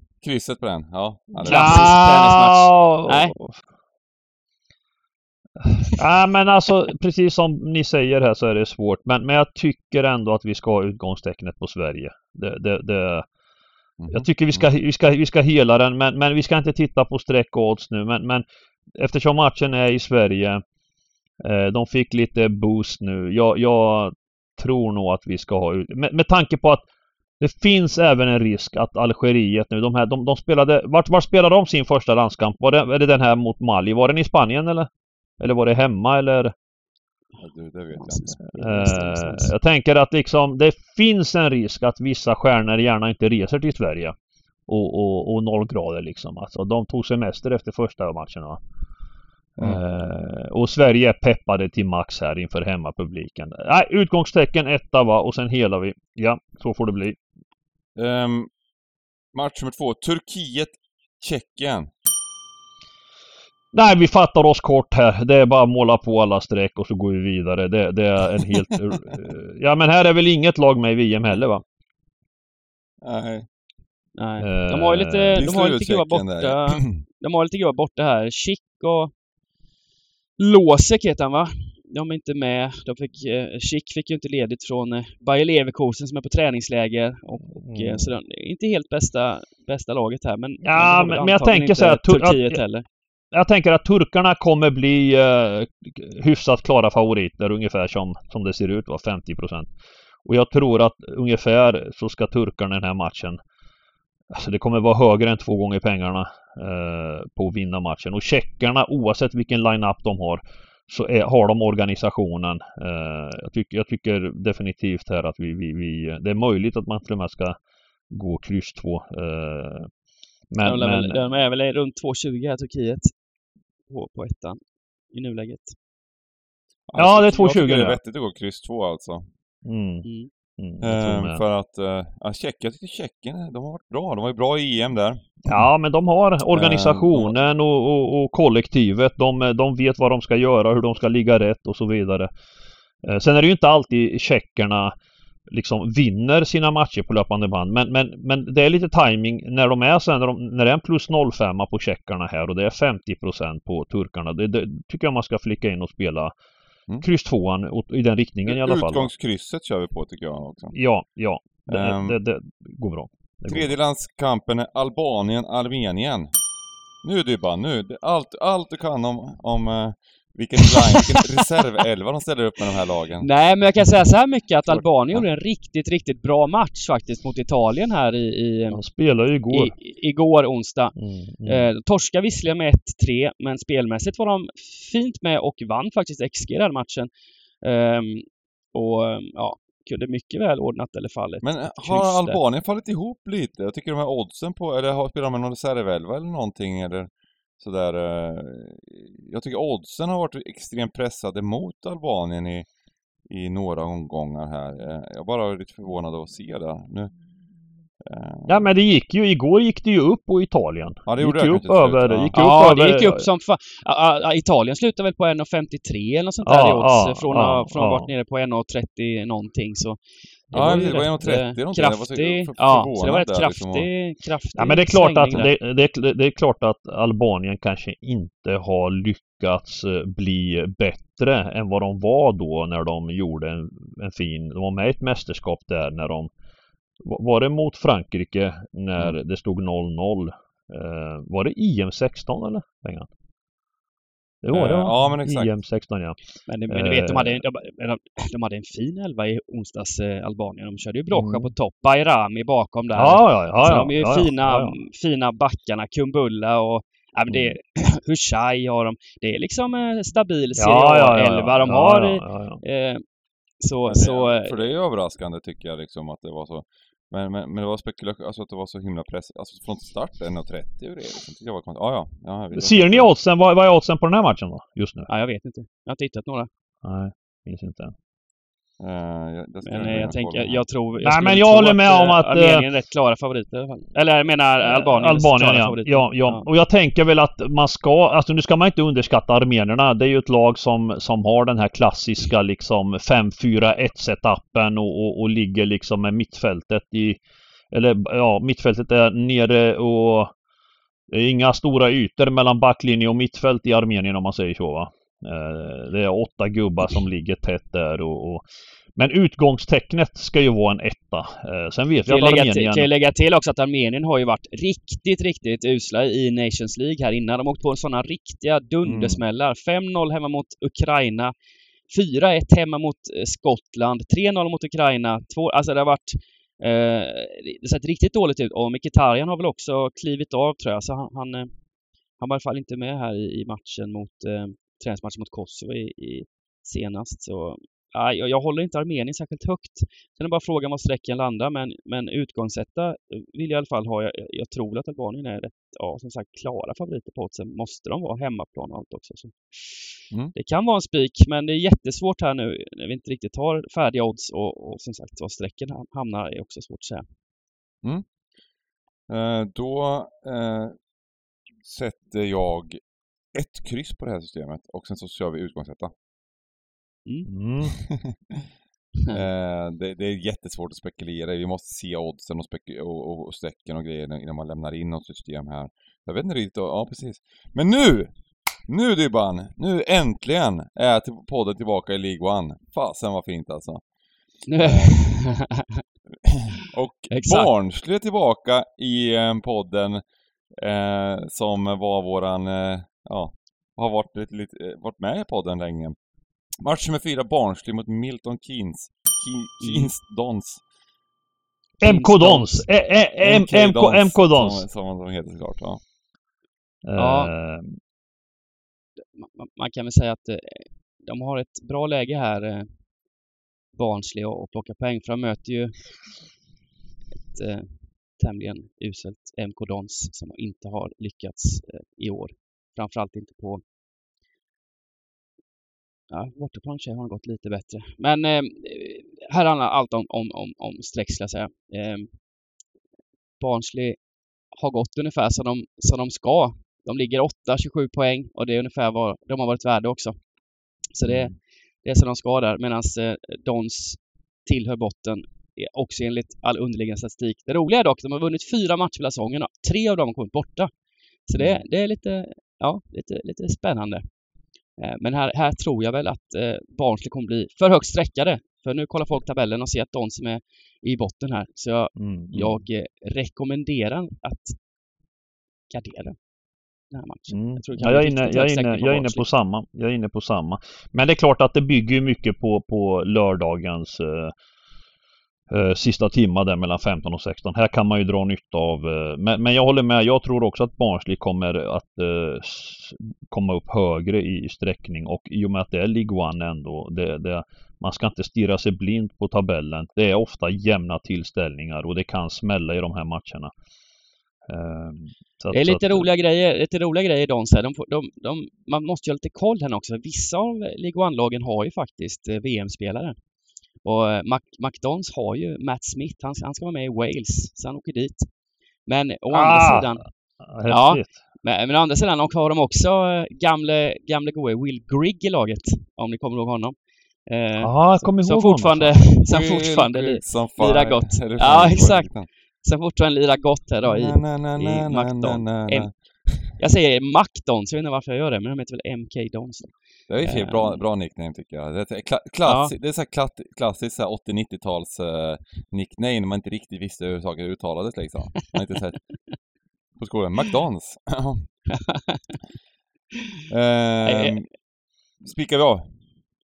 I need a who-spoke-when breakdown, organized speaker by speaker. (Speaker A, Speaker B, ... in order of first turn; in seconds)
Speaker A: 0.2-2.1, 14.0-14.6, 37.4-38.4, 58.0-58.5, 59.3-61.9, 73.0-73.5, 75.3-77.0, 126.9-129.3, 130.8-135.5, 136.5-137.3, 158.5-160.8, 161.7-162.2, 163.5-166.3, 167.0-173.3, 174.7-175.2, 191.4-202.7, 203.3-207.1, 208.0-208.7, 211.1-212.4, 220.5-223.9, 244.5-245.6, 263.9-273.1, 278.8-280.6, 359.1-360.8, 361.6-362.8, 363.3-365.9, 367.7-368.1, 369.1-378.1, 378.7-383.8, 384.6-385.0, 386.5-390.0, 390.6-396.0, 396.6-400.6, 403.2-405.8, 441.0-441.3, 519.3-522.3, 523.9-526.5, 530.1-539.0, 540.0-541.5, 543.5-544.5, 545.2-545.9
Speaker B: 1.4-3.3, 38.0-39.5, 74.2-79.1, 80.4-92.8, 120.6-123.1, 123.9-124.6, 125.1-125.7, 130.0-130.3, 170.8-171.2, 173.2-178.8, 179.5-187.1, 187.6-192.4, 212.3-225.5, 246.5-263.0, 263.6-264.6, 275.1-276.5, 279.7-286.5, 312.1-321.3, 321.9-331.5, 332.2-357.0, 384.5-385.8, 387.1-387.5, 399.6-399.9, 401.8-402.6, 407.0-407.3, 409.2-412.7, 413.8-415.9, 417.3-423.6, 426.1-432.1, 433.4-434.0, 434.5-440.2, 440.9-450.7, 451.3-454.0, 454.8-464.6, 465.7-466.2, 466.9-469.3, 495.5-503.1, 503.8-508.3, 508.9-510.0, 510.7-516.8, 517.3-522.1, 522.6-525.9, 526.5-530.8, 532.5-532.7, 541.7-542.4, 544.1-544.4
Speaker C: 1.5-3.6, 5.6-13.3, 14.1-20.6, 21.4-26.9, 27.4-34.9, 35.4-36.5, 38.5-44.1, 44.7-48.6, 49.6-57.2, 63.7-71.6, 74.4-75.4, 87.6-88.1, 90.6-92.6, 93.3-99.7, 100.2-103.4, 104.3-117.6, 118.1-119.9, 120.5-121.2, 127.0-128.0, 129.7-130.1, 130.6-131.4, 135.5-142.3, 143.0-144.9, 145.5-156.3, 157.0-159.1, 160.7-163.7, 178.7-179.7, 181.0-181.7, 208.5-213.2, 216.4-218.1, 220.5-221.0, 224.6-236.3, 237.0-243.1, 244.4-246.2, 246.7-247.4, 251.1-251.5, 252.9-254.7, 257.3-257.6, 260.6-262.6, 272.5-275.1, 276.8-277.9, 281.0-282.6, 284.6-297.2, 297.7-300.3, 301.1-308.4, 309.0-312.9, 318.8-319.2, 367.3-367.7, 401.8-404.6, 406.9-407.8, 462.0-462.6, 467.3-474.3, 475.5-493.5, 494.5-496.1, 509.3-511.1, 517.6-519.0